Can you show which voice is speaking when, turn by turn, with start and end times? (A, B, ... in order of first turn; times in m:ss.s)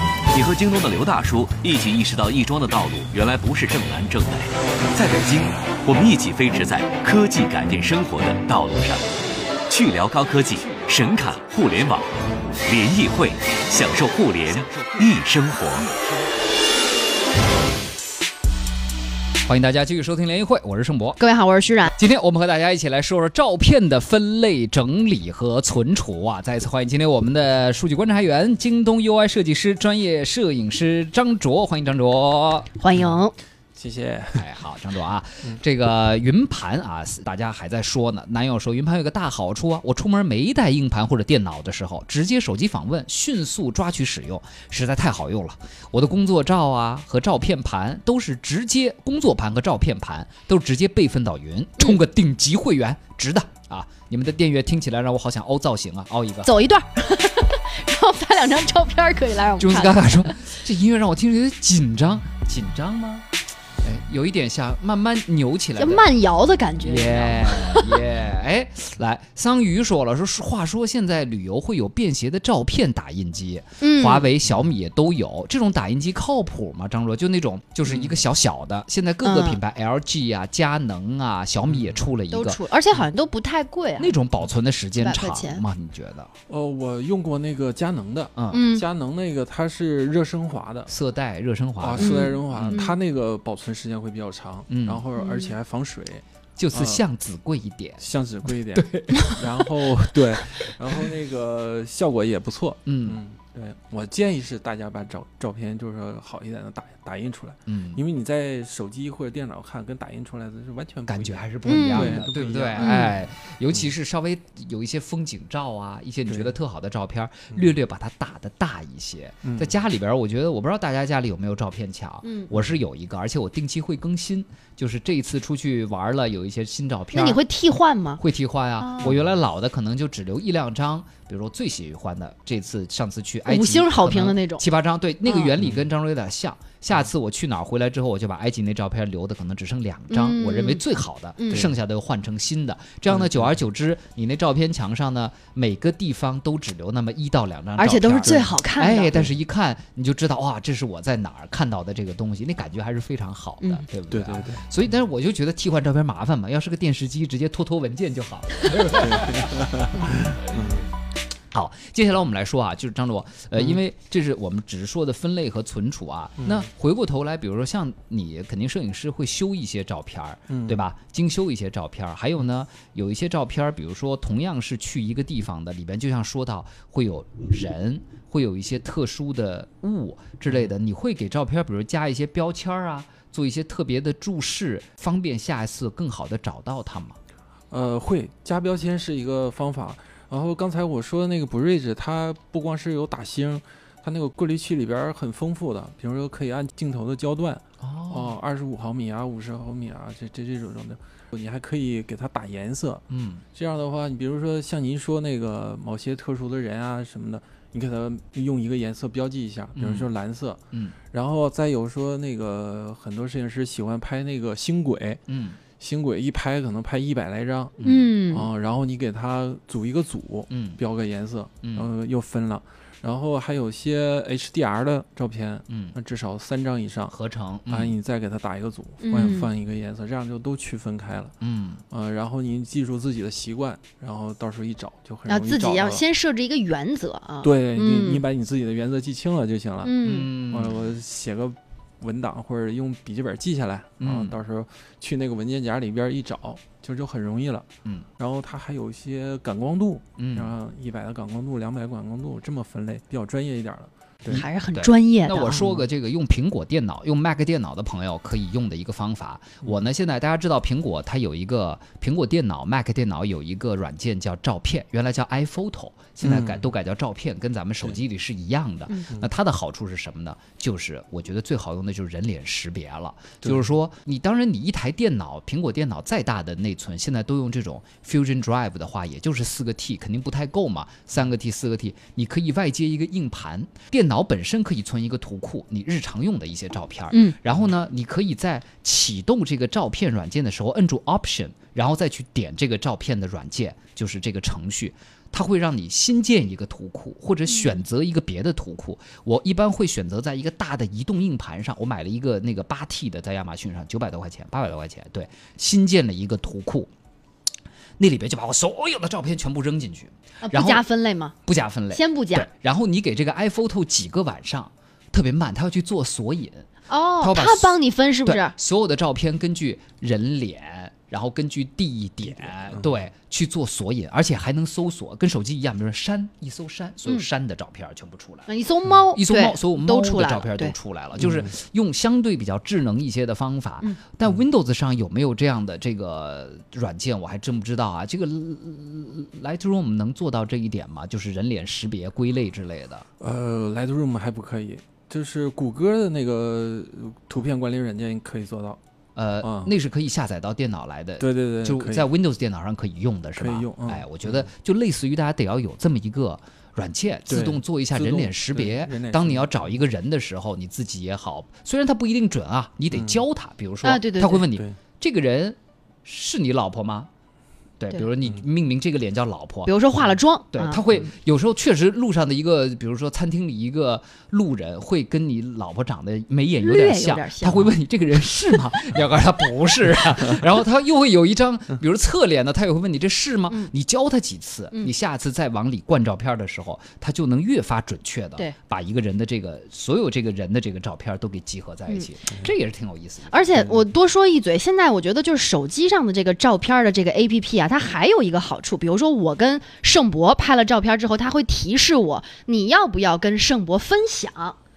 0:00.3-0:15.9 A
0:14.7-0:15.1 B
0:19.4-0:21.2 B
0:21.2-0:21.9 C
0:22.0-0:32.7 B
0:32.8-0:33.3 C
0:33.7-0:34.5 D
0:34.3-0:56.5 B
0:56.4-1:00.4 C
0:59.6-1:03.3 B
1:03.8-1:06.0 B
1:05.8-1:08.0 C
1:06.8-1:22.6 B
1:13.8-1:14.3 C
1:17.8-1:18.2 D
1:19.2-1:19.6 C
1:21.7-1:22.0 D
1:22.3-1:24.2 C
1:24.0-1:26.3 B
1:25.0-1:25.6 C
1:26.5-1:30.9 D
1:28.4-1:28.6 B
1:28.5-1:28.8 C
1:30.9-1:32.8 B
1:31.8-1:37.0 D
1:32.0-1:33.0 C
1:34.7-1:35.0 B
1:35.1-1:35.6 C
1:36.6-1:41.1 B
1:38.0-1:53.1 D
1:42.8-1:43.2 B
1:47.7-1:48.0 B
1:51.1-2:07.4 B
1:51.6-1:52.2 C
1:52.8-1:53.1 C
1:56.2-1:56.5 D
1:59.4-1:59.8 D
2:02.2-2:02.5 C
2:07.1-2:08.2 C
2:08.2-2:39.7 B
2:08.8-2:09.1 C
2:09.0-2:09.4 D
2:13.4-2:14.6 C
2:15.2-2:15.5 C
2:15.6-2:15.8 D
2:20.1-2:20.8 C
2:21.4-2:21.7 C
2:23.1-2:23.5 D
2:27.8-2:29.2 C
2:28.2-2:28.6 D
2:34.1-2:34.6 D
2:38.8-2:40.9 D
2:41.5-3:07.2 B
2:46.4-2:46.7 D
2:50.5-2:50.8 D
3:07.7-3:35.2 D
3:17.8-3:18.4 B
3:23.1-3:23.4 B
3:29.8-3:30.1 B
3:35.3-3:35.6 B
3:35.8-3:47.1 D
3:37.8-3:38.1 B
3:37.8-3:38.5 C
3:40.5-3:40.8 B
3:41.6-3:41.9 B
3:45.7-3:45.9 B
3:47.1-3:47.9 B
3:47.7-3:51.3 D
3:49.0-3:49.5 C
3:51.4-3:51.8 B
3:51.9-3:56.0 D
3:55.3-3:58.2 C
3:57.4-4:07.7 D
3:59.8-4:00.3 C
4:00.0-4:00.9 B
4:04.0-4:04.4 B
4:08.2-4:14.4 D
4:10.2-4:10.5 B
4:14.3-5:06.9 B
4:14.3-4:15.7 C
4:15.6-4:15.8 D
4:26.2-4:26.7 D
4:33.4-4:33.7 D
4:47.1-4:47.4 C
5:08.0-5:10.8 B
5:10.4-5:11.3 C
5:11.4-5:16.7 B
5:11.9-5:12.5 C
5:16.9-5:18.5 C
5:17.2-5:28.5 B
5:22.6-5:23.0 D
5:28.5-5:30.7 C
5:29.1-5:43.0 B
5:31.2-5:31.5 D
5:43.2-5:48.8 D
5:49.2-6:07.1 B
5:49.4-5:49.7 D
5:51.2-5:52.1 D
5:53.4-5:54.5 D
5:57.3-5:59.6 D
6:02.9-6:03.2 D
6:03.8-6:04.5 C
6:04.5-6:04.8 D
6:07.8-6:09.7 B
6:09.6-6:10.8 C
6:10.5-6:33.7 B
6:16.6-6:17.7 C
6:33.3-6:44.6 C